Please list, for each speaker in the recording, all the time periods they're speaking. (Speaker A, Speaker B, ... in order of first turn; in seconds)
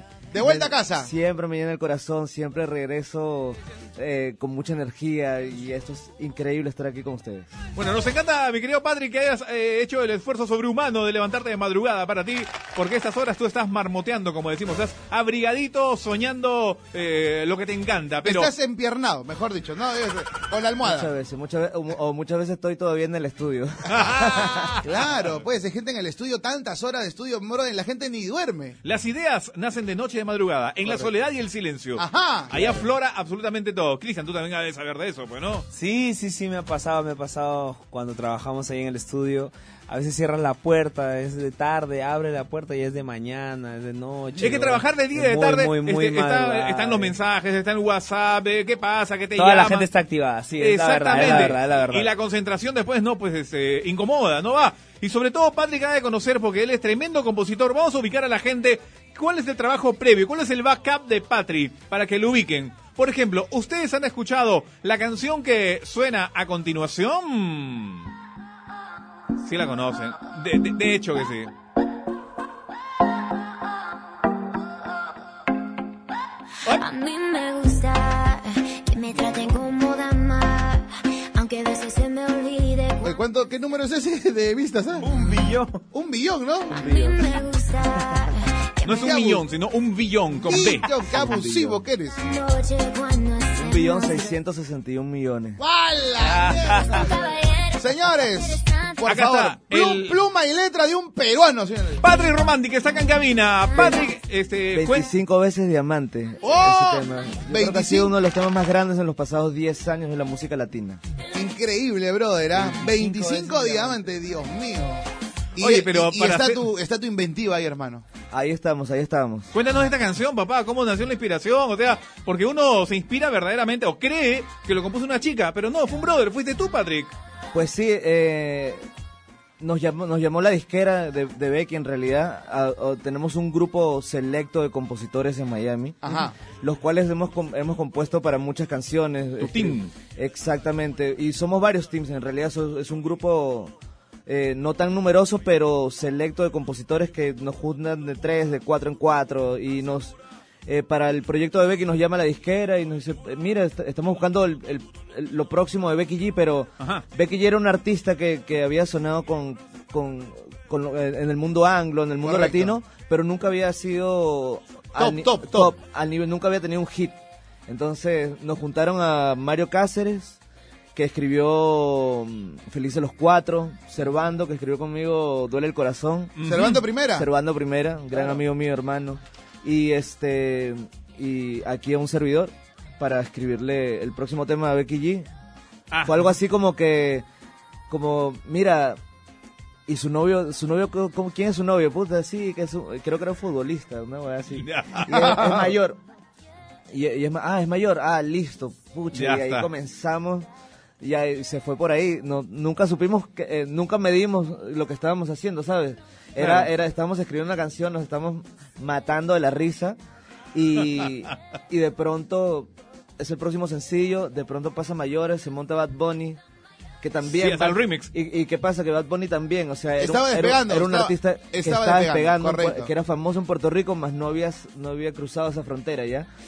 Speaker A: 0.3-1.1, 18.2-21.1, 24.8-28.8, 32.0-32.8, 83.0-85.2, 85.9-87.0, 89.0-89.4, 90.5-92.2, 95.6-102.1, 106.4-108.1, 111.3-118.0, 136.0-136.4, 162.2-162.8, 165.0-165.8, 176.4-177.3, 220.0-222.9
Speaker B: 0.4-7.5, 20.8-24.7, 91.1-91.8, 93.5-95.6, 104.7-111.0, 112.5-114.0, 118.3-119.5, 127.5-128.8, 129.6-143.7, 144.3-150.2, 150.7-170.4, 170.9-176.3, 177.2-185.3, 186.1-187.2, 187.9-189.0, 189.9-196.0, 196.9-200.5, 201.0-210.0, 210.5-216.4, 217.0-226.3
Speaker C: 7.8-18.5, 23.9-24.8, 28.8-35.7, 44.4-49.9, 50.6-68.1, 69.4-71.5, 88.8-90.8, 99.0-100.2, 102.0-105.1, 115.6-116.6, 119.5-127.1, 139.4-139.9, 176.4-176.8, 185.9-186.2, 194.6-195.7, 199.1-199.7, 206.4-206.7, 217.4-218.1
Speaker D: 35.7-47.2, 49.4-52.1, 85.0-85.8, 96.2-97.0
Speaker E: 76.7-83.1, 86.7-89.3, 92.2-94.3, 97.0-99.0